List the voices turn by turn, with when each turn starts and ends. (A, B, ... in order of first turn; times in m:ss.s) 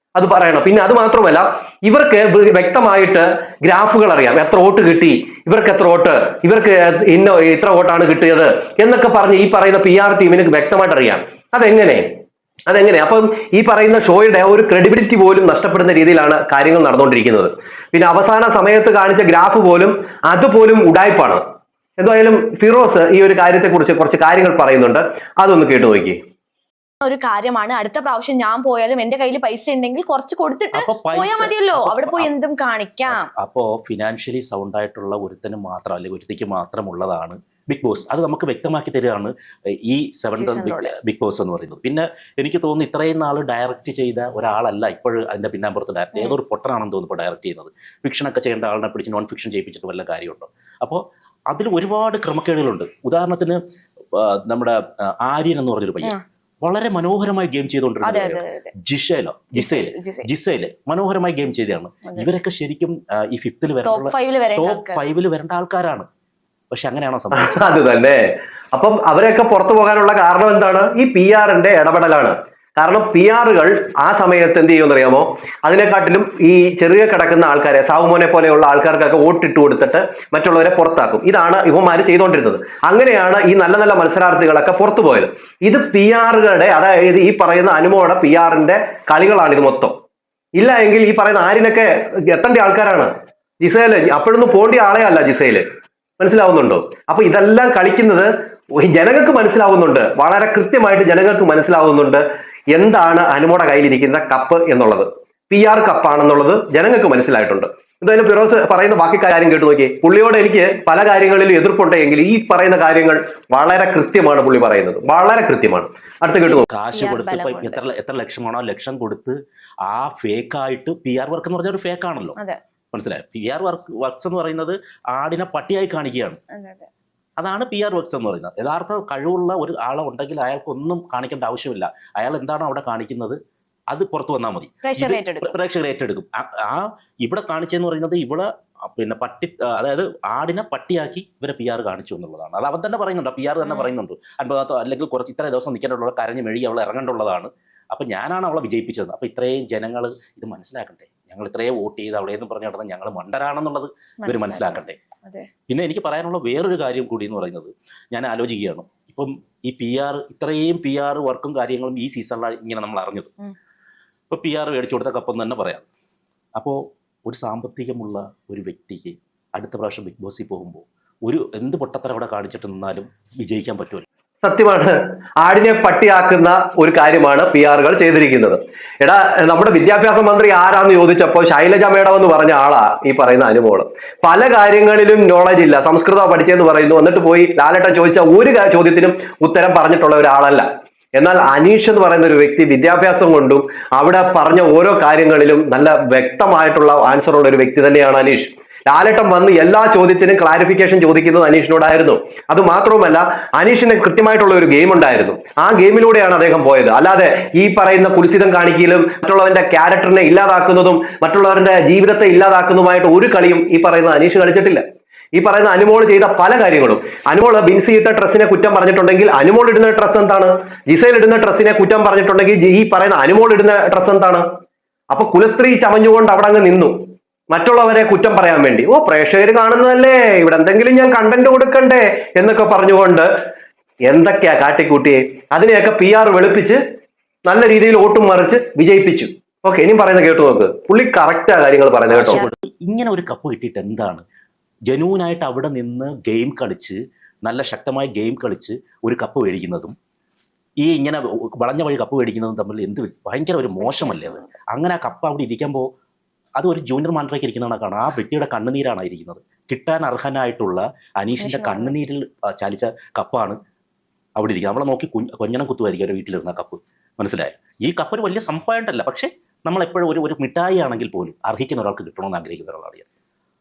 0:00.2-0:12.0 A
0:12.7-0:21.4 A
0:22.0-0:26.2 A
0:27.0-0:33.3 B
0:30.7-0:32.3 C
0:33.1-0:39.3 C
0:39.8-0:53.6 C
0:40.4-0:41.0 B
0:54.1-1:06.1 C
0:58.0-0:58.7 B
0:59.6-1:00.3 B
1:02.1-1:02.3 B
1:03.8-1:05.1 B
1:06.7-1:07.5 C
1:07.3-1:08.2 A
1:08.7-1:29.9 A
1:30.6-1:33.1 A
1:33.6-1:35.6 A
1:36.2-1:42.2 A
1:42.7-1:56.7 A
1:56.5-1:57.8 B
1:56.7-2:02.4 C
2:02.9-2:06.4 C
2:06.5-2:06.9 B
2:07.4-2:13.4 C
2:13.9-2:35.0 C
2:14.8-2:15.6 B
2:23.6-2:23.9 B
2:34.2-2:35.5 B
2:35.7-2:43.3 C
2:44.3-2:45.9 C
2:46.6-2:54.0 C
2:54.4-3:34.8 A
3:35.4-3:44.4 A
3:45.1-3:47.0 A
3:47.5-3:53.3 A
3:54.1-3:56.8 A
3:57.5-4:02.4 A
4:02.1-4:04.2 C
4:04.9-4:10.0 C
4:10.8-4:15.9 C
4:13.8-4:14.5 B
4:16.6-4:23.6 C
4:21.4-4:21.9 B
4:24.4-4:33.1 C